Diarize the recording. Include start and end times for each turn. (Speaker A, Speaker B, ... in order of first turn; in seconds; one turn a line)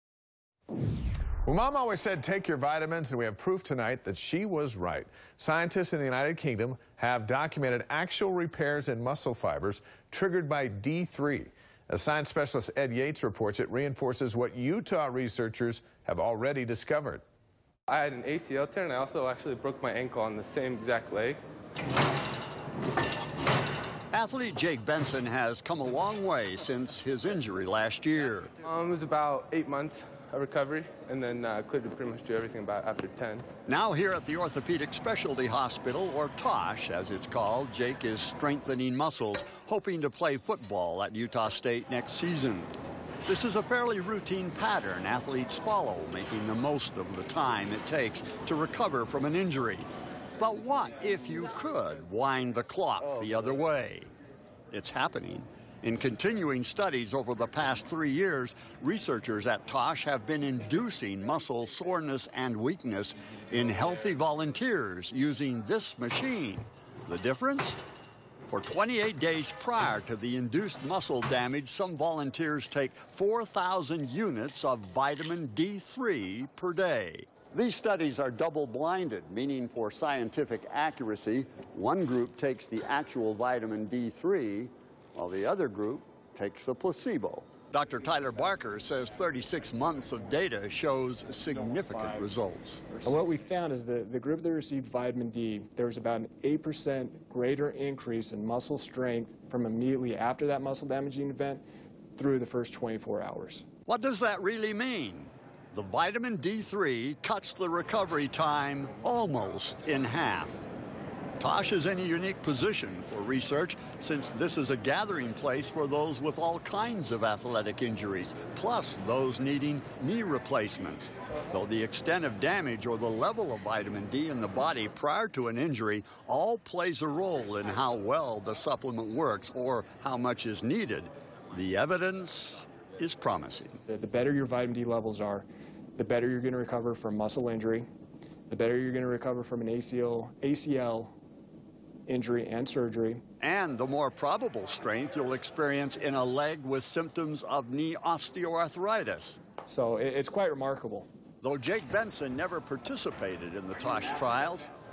Speaker A: 1.4-17.2
Speaker B: 17.9-21.4
Speaker C: 24.1-28.5
Speaker B: 28.6-33.4
Speaker C: 33.7-42.7
Speaker C: 43.3-49.9
Speaker C: 50.4-54.1
Speaker C: 54.7-67.8
Speaker C: 68.5-93.0
Speaker D: 93.0-101.6
Speaker D: 102.2-103.7
Speaker C: 103.9-110.6
Speaker C: 111.4-133.8
Speaker D: 133.8-137.9
Speaker D: 138.5-141.1
Speaker D: 142.1-143.2
Speaker C: 143.4-149.4
Speaker D: 149.6-151.1
Speaker C: 151.4-154.7